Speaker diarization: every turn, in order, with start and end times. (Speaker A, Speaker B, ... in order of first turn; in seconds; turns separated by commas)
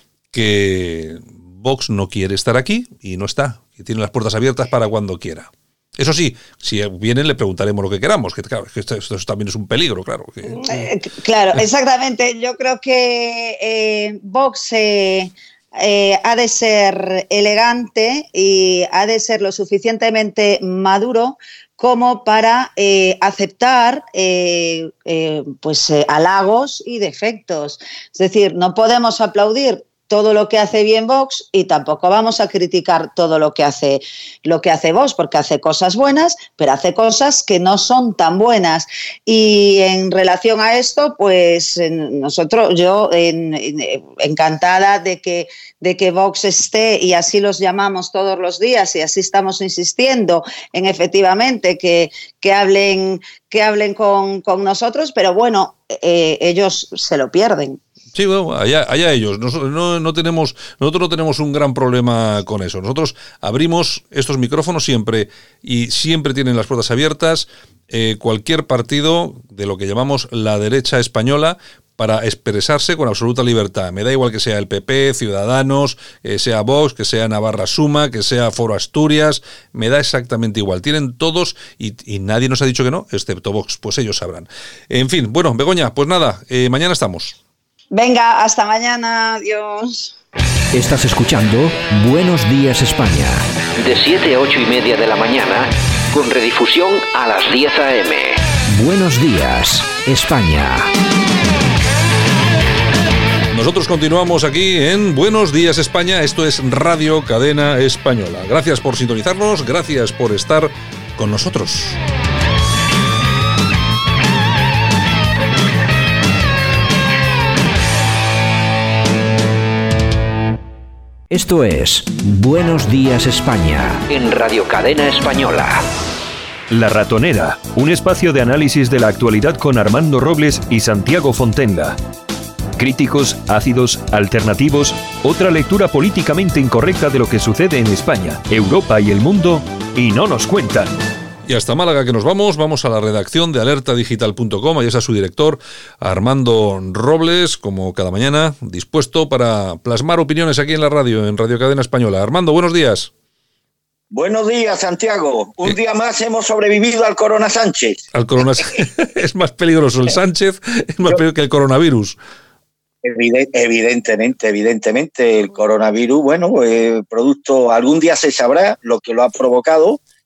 Speaker A: 0.3-10.9, Speaker B: 10.5-57.8, Speaker A: 58.1-87.4, Speaker B: 87.9-90.1, Speaker C: 90.7-93.4, Speaker D: 93.8-98.4, Speaker C: 98.7-100.9, Speaker A: 103.5-112.0, Speaker C: 121.3-124.0, Speaker D: 124.1-125.9, Speaker E: 126.7-132.0, Speaker E: 132.8-141.0, Speaker A: 141.5-153.1, Speaker F: 154.1-158.0, Speaker A: 158.1-162.2, Speaker F: 163.0-170.0